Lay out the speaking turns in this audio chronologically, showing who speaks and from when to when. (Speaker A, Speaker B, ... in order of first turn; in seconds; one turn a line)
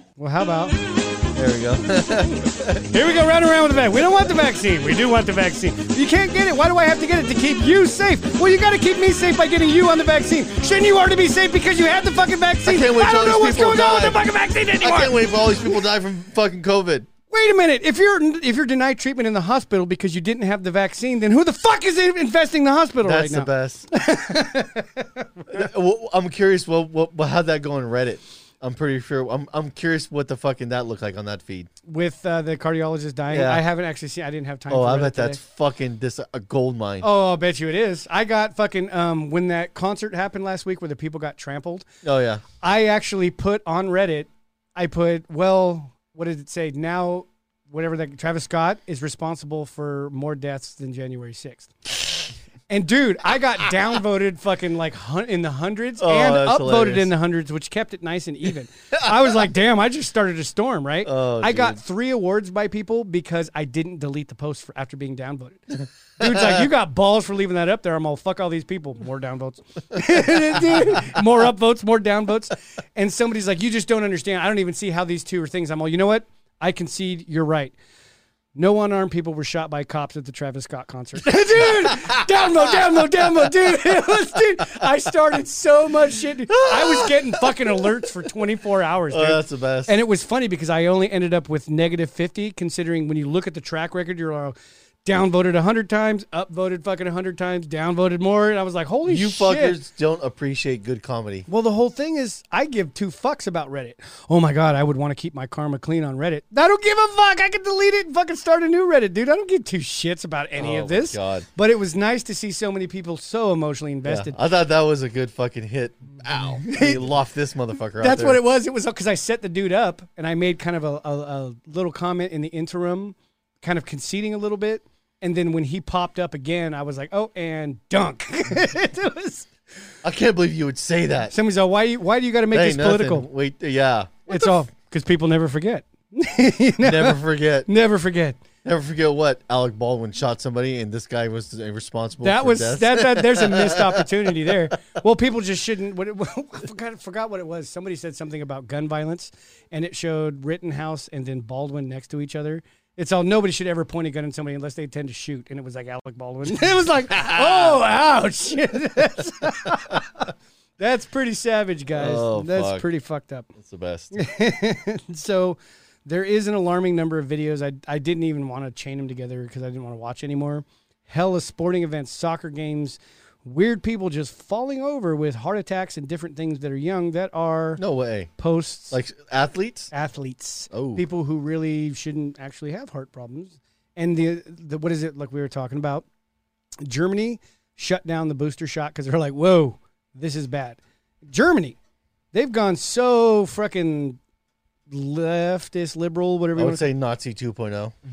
Speaker A: 0.2-0.8
Speaker B: 1.3-2.9
Speaker A: 2.9-15.2
Speaker B: 12.6-14.2
Speaker B: 14.8-17.1
Speaker A: 17.3-25.6
Speaker B: 23.0-23.9
Speaker B: 25.5-31.7
Speaker A: 31.9-35.4
Speaker B: 33.3-33.6
Speaker B: 34.7-37.1
Speaker A: 37.0-41.9
Speaker B: 42.0-42.4
Speaker A: 42.6-51.9
Speaker A: 52.7-77.8
Speaker B: 56.0-57.1
Speaker B: 59.0-59.3
Speaker B: 61.0-61.8
Speaker B: 66.2-66.7
Speaker B: 70.1-71.2
Speaker A: 78.5-99.8
Speaker B: 81.6-82.2
Speaker B: 86.5-87.8
Speaker B: 89.1-89.9
Speaker B: 99.1-101.5
Speaker A: 101.5-114.3
Speaker B: 110.6-111.5
Speaker B: 114.0-118.4
Speaker A: 116.6-117.0
Speaker A: 118.0-129.5
Speaker B: 130.0-131.3
Speaker A: 131.3-133.3
Speaker B: 132.5-134.6
Speaker A: 134.3-138.4
Speaker B: 136.8-137.7
Speaker B: 138.6-144.5
Speaker A: 142.2-163.5
Speaker B: 157.2-157.8
Speaker B: 161.9-162.8
Speaker B: 163.6-164.2
Speaker A: 164.1-177.8
Speaker B: 177.8-178.3
Speaker A: 178.4-179.0
Speaker B: 178.9-179.9
Speaker A: 179.9-186.1
Speaker B: 180.7-181.0
Speaker A: 186.8-191.8
Speaker A: 192.3-194.2
Speaker A: 194.9-196.9
Speaker B: 196.6-197.9